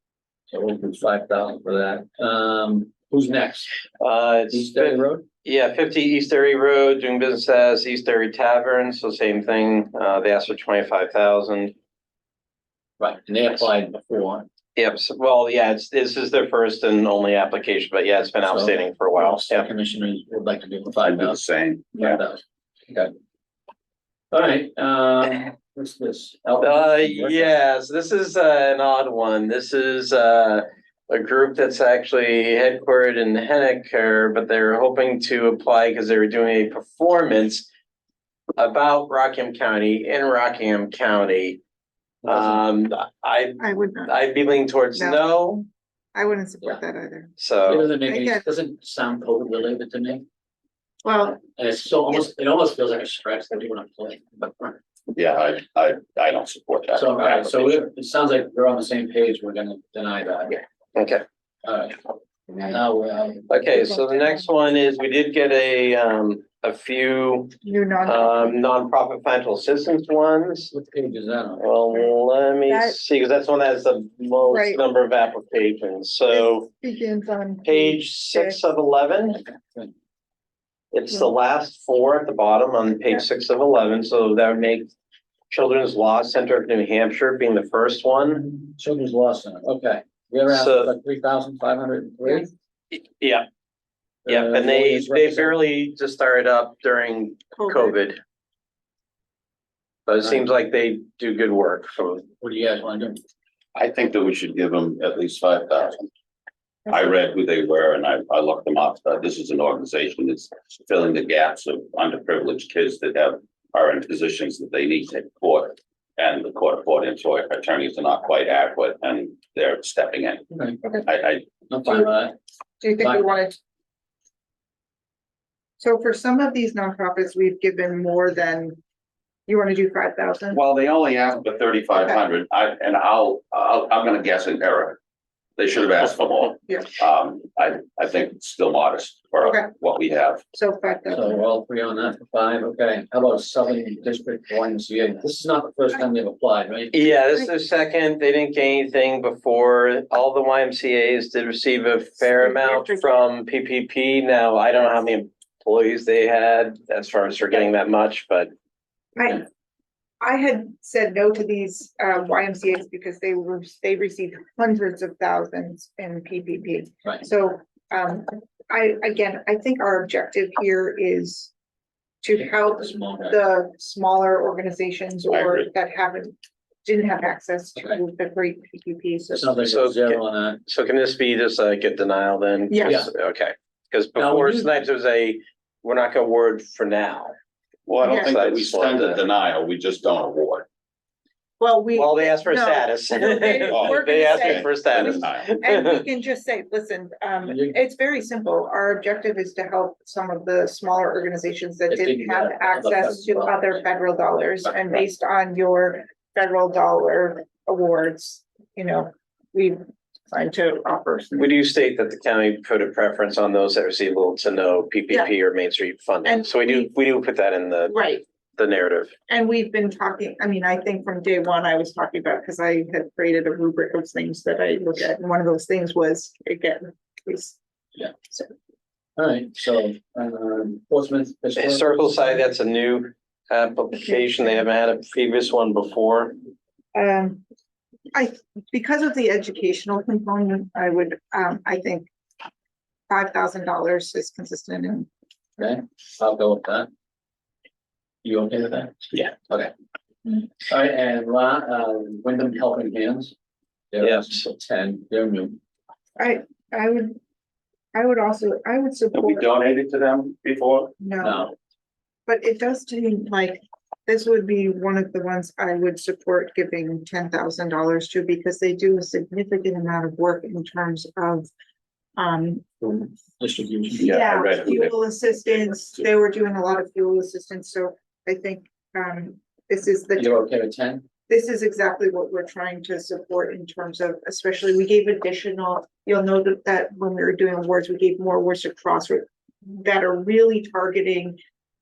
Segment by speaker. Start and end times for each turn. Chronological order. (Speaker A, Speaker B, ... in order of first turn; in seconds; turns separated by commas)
Speaker A: 0.5-3.8, Speaker B: 4.0-11.7, Speaker A: 4.5-5.2, Speaker A: 13.0-14.5, Speaker B: 14.8-19.7, Speaker A: 18.4-21.4, Speaker C: 21.0-22.2, Speaker A: 21.9-23.1, Speaker A: 24.3-27.6, Speaker B: 26.6-37.6, Speaker B: 38.6-41.6, Speaker A: 42.2-42.6, Speaker B: 42.2-45.6, Speaker D: 43.6-44.1, Speaker D: 45.0-45.3, Speaker D: 46.1-47.4, Speaker B: 47.4-47.9, Speaker A: 47.6-50.2, Speaker D: 48.0-48.4, Speaker D: 51.0-51.4, Speaker A: 51.5-54.8, Speaker C: 55.1-57.7, Speaker A: 56.9-60.6, Speaker B: 60.9-61.2, Speaker A: 61.6-62.0, Speaker A: 62.6-63.5, Speaker B: 63.5-70.7, Speaker D: 63.6-64.5, Speaker D: 67.6-68.6, Speaker A: 70.7-71.6, Speaker B: 71.6-76.7, Speaker D: 72.7-73.0, Speaker D: 74.5-74.8, Speaker D: 76.3-78.6, Speaker B: 77.6-79.4, Speaker A: 79.5-79.9, Speaker B: 80.9-84.9, Speaker B: 85.5-88.6, Speaker A: 88.7-92.5, Speaker B: 90.5-90.9, Speaker B: 92.9-93.5, Speaker A: 94.2-95.6, Speaker B: 94.3-98.2, Speaker D: 97.6-98.0, Speaker B: 100.0-102.2, Speaker A: 100.2-100.5, Speaker A: 102.4-103.2, Speaker C: 103.7-106.1, Speaker C: 106.9-120.5, Speaker C: 121.0-121.5, Speaker A: 121.7-122.3, Speaker D: 122.8-123.6, Speaker A: 123.0-123.3, Speaker D: 125.8-128.8, Speaker D: 129.5-130.6, Speaker C: 130.5-135.0, Speaker C: 135.6-140.4, Speaker D: 139.4-139.7, Speaker D: 140.5-141.3, Speaker A: 141.1-146.9, Speaker B: 146.9-158.5, Speaker D: 152.2-153.1, Speaker D: 159.2-159.4, Speaker D: 160.2-171.5, Speaker D: 172.2-179.7, Speaker A: 172.8-173.3, Speaker C: 175.3-175.7, Speaker A: 179.3-180.6, Speaker B: 179.7-187.3, Speaker D: 182.7-183.0, Speaker A: 182.8-183.1, Speaker A: 184.2-184.8, Speaker C: 187.9-190.7, Speaker D: 188.0-188.3, Speaker B: 188.1-189.2, Speaker D: 191.6-209.8, Speaker B: 191.9-196.0, Speaker C: 193.7-195.5, Speaker A: 197.4-197.8, Speaker A: 201.9-203.8, Speaker D: 210.3-211.5, Speaker B: 211.3-217.9, Speaker D: 216.2-216.9, Speaker D: 217.9-218.2, Speaker B: 218.6-219.1, Speaker D: 219.3-227.6, Speaker A: 229.2-232.3, Speaker B: 231.6-236.4, Speaker D: 236.9-237.4, Speaker D: 238.1-242.1, Speaker D: 243.1-245.1, Speaker A: 245.6-246.9, Speaker A: 248.2-249.7, Speaker A: 250.6-253.3, Speaker A: 253.9-255.6, Speaker B: 254.0-254.3, Speaker D: 256.2-257.2, Speaker D: 257.9-259.5, Speaker C: 259.1-260.9, Speaker D: 261.0-261.4, Speaker A: 261.2-261.5, Speaker D: 262.3-271.5, Speaker D: 272.2-272.9, Speaker A: 272.8-274.2, Speaker C: 274.0-274.9, Speaker D: 274.0-280.4, Speaker A: 280.2-281.0, Speaker D: 281.3-291.4